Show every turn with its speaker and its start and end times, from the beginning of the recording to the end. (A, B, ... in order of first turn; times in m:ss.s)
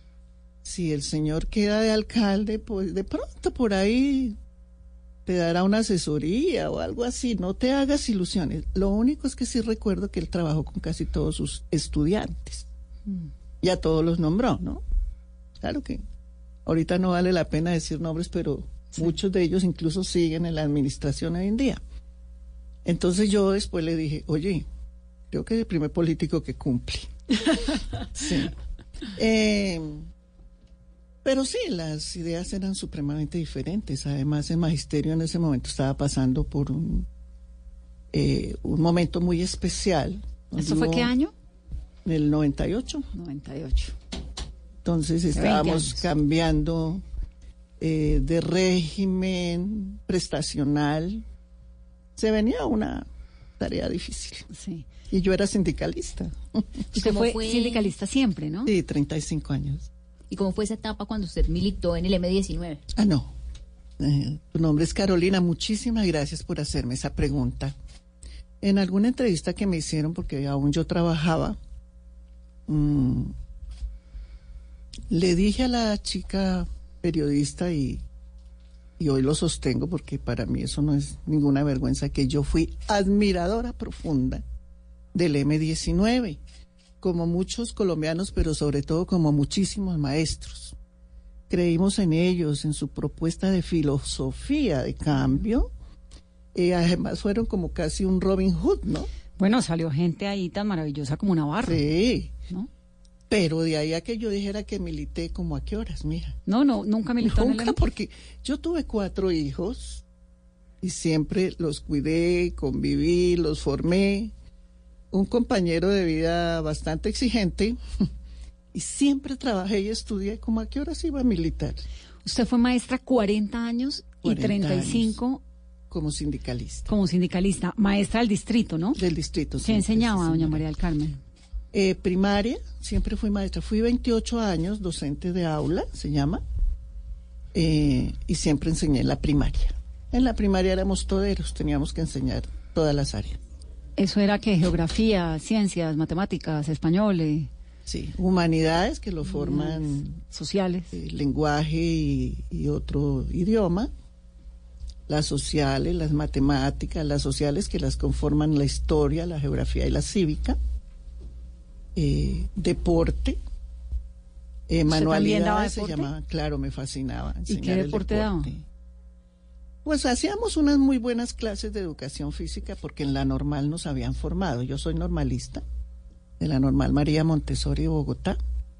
0:00.6-0:04.4 A
0:05.3-0:12.7 A
0:13.1-0:13.3 B
0:13.6-0:14.8 A
0:15.6-0:16.0 A
0:16.6-0:21.8 A
0:22.8-0:24.7 A
0:25.3-0:27.1 A
0:28.1-0:28.5 A
0:29.2-0:30.1 A
0:31.2-0:37.1 A
0:38.1-0:41.1 A
0:40.6-0:41.3 B
0:42.0-0:43.1 A
0:43.1-0:44.0 B
0:44.8-0:47.0 A
0:45.3-0:46.0 B
0:47.8-0:51.3 A
0:52.2-0:53.1 A
0:53.6-0:54.5 A
0:54.5-0:54.9 B
0:55.1-0:56.7 A
0:57.0-0:58.7 B
0:57.0-0:57.9 C
0:58.6-0:59.9 A
1:00.3-1:02.8 C
1:03.0-1:03.3 A
1:04.0-1:07.8 A
1:08.6-1:11.6 A
1:12.7-1:13.4 A
1:15.1-1:18.0 A
1:19.0-1:24.4 A
1:25.1-1:26.4 A
1:27.0-1:30.8 A
1:31.5-1:35.7 A
1:35.1-1:35.4 B
1:36.5-1:39.1 A
1:39.4-1:41.8 B
1:41.6-1:42.3 A
1:43.3-1:46.4 A
1:46.5-1:47.8 B
1:47.2-1:50.0 A
1:50.8-1:54.3 A
1:55.1-1:57.8 A
1:58.7-2:01.8 A
2:02.2-2:05.4 B
2:04.2-2:05.2 A
2:05.9-2:06.9 A
2:06.9-2:09.0 B
2:09.0-2:10.6 A
2:09.6-2:11.2 B
2:11.7-2:16.4 A
2:17.5-2:23.4 A
2:24.0-2:27.5 B
2:27.9-2:30.2 A
2:29.2-2:31.0 B
2:30.9-2:33.9 A
2:35.1-2:40.6 A
2:42.0-2:43.4 A
2:44.7-2:48.7 A
2:44.9-2:46.1 B
2:47.5-2:48.5 B
2:49.8-2:55.6 A
2:56.4-2:58.4 A